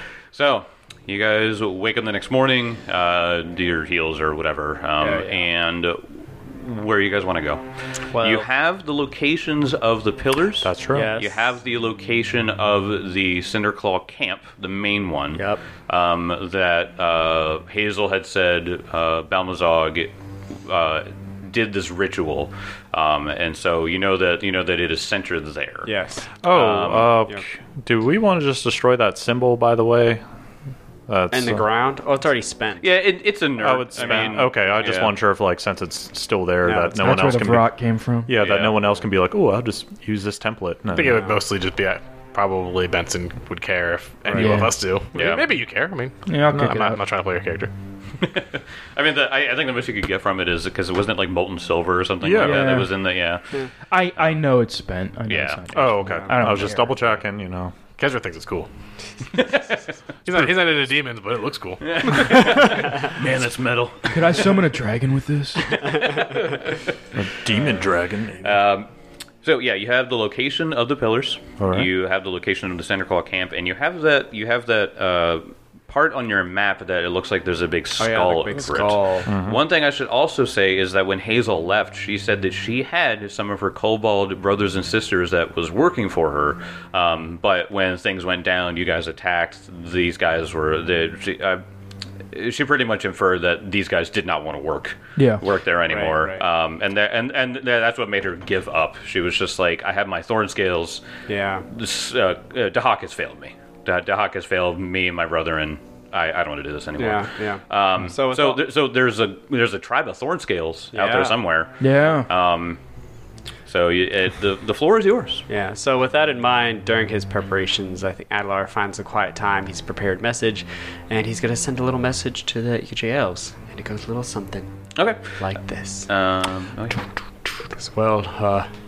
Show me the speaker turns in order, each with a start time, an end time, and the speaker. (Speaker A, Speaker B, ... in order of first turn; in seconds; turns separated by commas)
Speaker A: 0.3-25.9, Speaker B: 5.0-5.5, Speaker B: 8.1-8.5, Speaker C: 10.6-11.1, Speaker B: 10.9-11.4, Speaker B: 15.4-15.6, Speaker B: 25.9-26.4, Speaker C: 26.4-30.2, Speaker A: 26.5-27.2, Speaker B: 27.0-27.4, Speaker C: 31.1-31.6, Speaker B: 31.3-33.0, Speaker A: 32.8-35.1, Speaker C: 33.6-37.7, Speaker B: 34.0-34.3, Speaker B: 36.6-37.2, Speaker D: 37.0-38.3, Speaker C: 38.3-41.2, Speaker A: 38.3-38.9, Speaker E: 40.9-47.7, Speaker B: 41.1-41.4, Speaker D: 44.3-44.8, Speaker A: 45.1-45.5, Speaker D: 46.3-47.0, Speaker A: 48.2-53.6, Speaker C: 52.2-52.8, Speaker D: 52.4-52.9, Speaker D: 53.9-57.0, Speaker A: 55.3-55.8, Speaker C: 55.7-57.8, Speaker E: 58.0-58.7, Speaker A: 59.3-59.9, Speaker E: 60.2-62.6, Speaker A: 61.8-64.4, Speaker D: 64.1-66.0, Speaker C: 67.2-68.6, Speaker A: 68.4-68.9, Speaker A: 69.4-91.6, Speaker C: 71.6-71.9, Speaker B: 78.0-79.3, Speaker C: 79.3-79.6, Speaker A: 92.3-101.0, Speaker D: 95.2-95.4, Speaker B: 95.9-96.4, Speaker B: 101.3-101.7, Speaker A: 101.7-112.8, Speaker B: 107.0-108.7, Speaker B: 110.9-111.4, Speaker D: 111.8-112.3, Speaker A: 113.7-115.5, Speaker B: 115.5-124.7, Speaker A: 125.0-127.0, Speaker B: 125.4-126.1, Speaker B: 127.7-128.7